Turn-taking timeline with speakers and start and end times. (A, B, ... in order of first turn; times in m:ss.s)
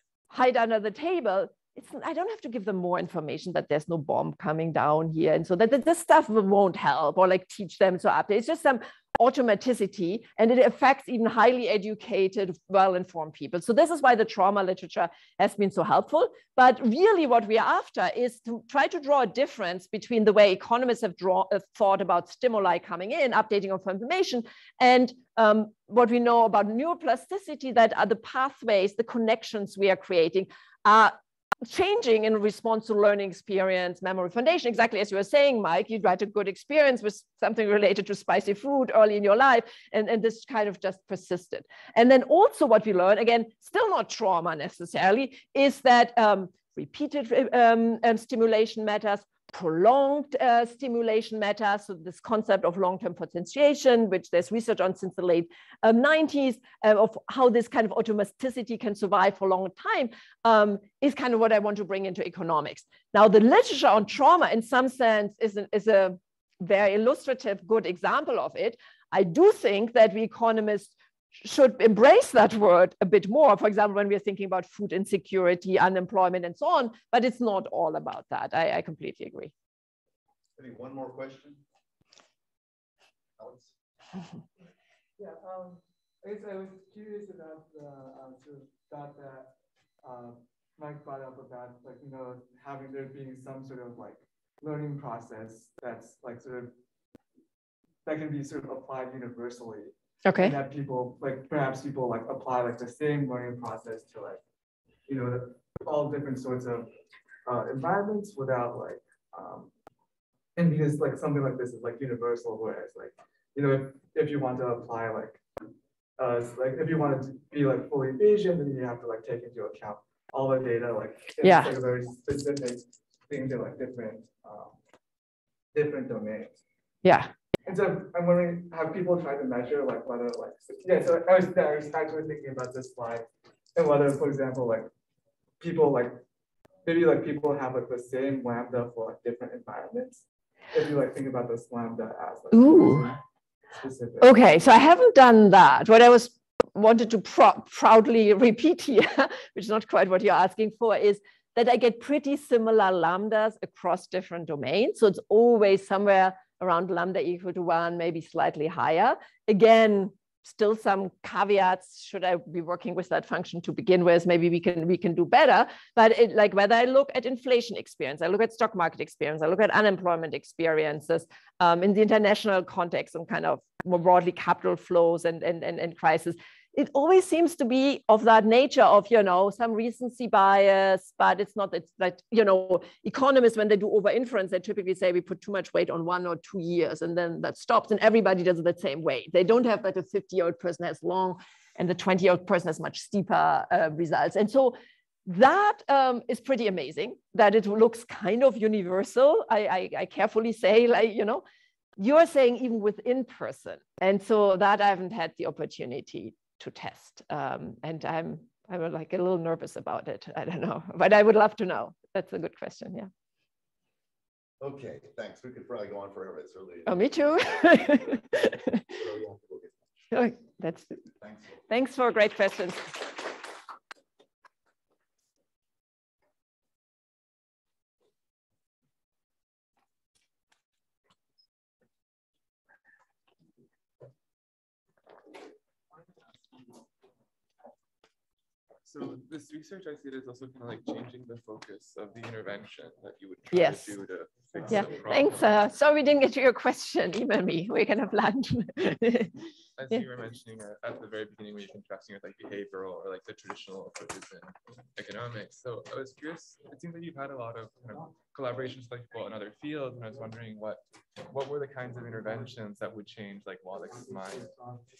0:00.3-1:19.5 A
1:20.6-1:21.6 B
1:23.4-1:23.7 B
1:25.2-1:36.7 C
1:38.0-1:44.4 C
1:40.2-1:40.6 A
1:45.1-1:46.9 C
1:47.4-1:49.7 C
1:50.6-1:55.4 C
1:56.2-2:04.8 C
2:01.4-2:01.7 A
2:05.7-2:06.6 C
2:07.0-2:07.3 A
2:07.6-2:14.9 C
2:15.6-2:16.2 C
2:16.8-2:23.2 C
2:22.5-2:23.1 A
2:23.7-2:24.4 C
2:24.2-3:21.4 A
3:22.0-3:33.1 A
3:34.6-3:39.9 B
3:36.9-3:38.8 A
3:40.1-3:41.0 A
3:41.2-3:41.6 B
3:41.7-3:43.0 A
3:58.8-4:05.6 D
4:03.5-4:04.0 A
4:04.6-4:04.9 C
4:04.7-4:10.0 A
4:09.8-4:24.5 D
4:24.0-4:24.8 C